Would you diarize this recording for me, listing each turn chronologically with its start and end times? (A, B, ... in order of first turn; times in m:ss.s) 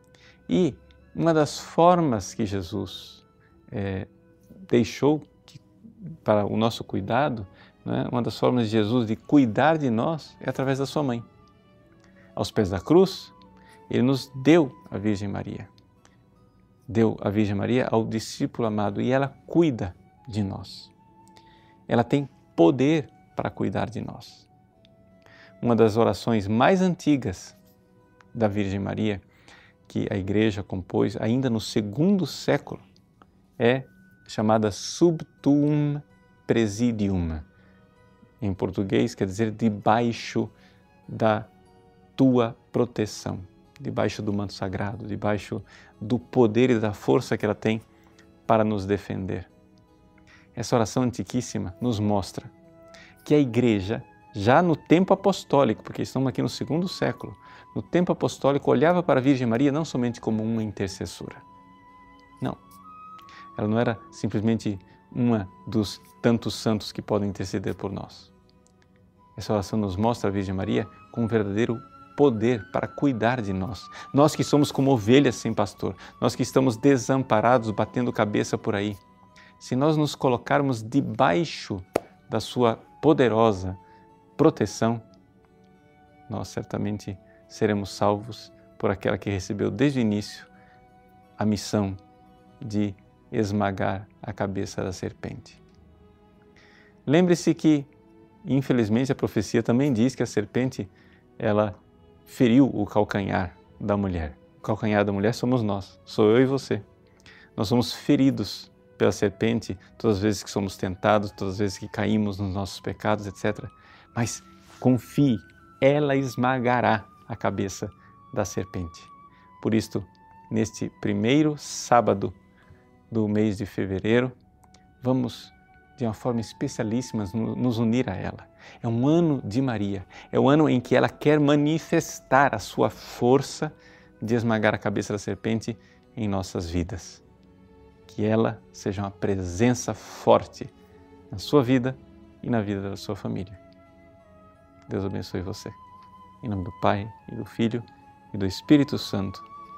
0:00.5-0:04.1 A
0:04.7-0:11.3 A
0:12.4-0:13.3 A
0:13.9-0:15.7 A
0:16.9-0:20.9 A
0:21.9-0:24.5 A
0:25.6-0:27.6 A
0:28.3-0:29.2 A
0:29.9-0:32.8 A
0:33.6-0:37.5 A
0:38.4-0:40.5 A
0:41.1-0:41.5 A
0:42.2-0:47.8 A
0:48.4-0:49.5 A
0:50.5-0:52.5 A
0:53.2-1:01.4 A
1:03.6-1:08.3 A
1:09.4-1:19.0 A
1:19.6-1:23.8 A
1:24.4-1:25.0 A
1:26.3-1:30.5 A
1:31.4-1:32.0 A
1:32.6-1:35.6 A
1:37.0-1:37.9 A
1:38.4-1:46.8 A
1:47.6-2:02.4 A
2:03.1-2:04.4 A
2:05.0-2:17.2 A
2:18.1-2:20.7 A
2:21.3-2:23.6 A
2:24.9-2:25.8 A
2:26.4-2:29.5 A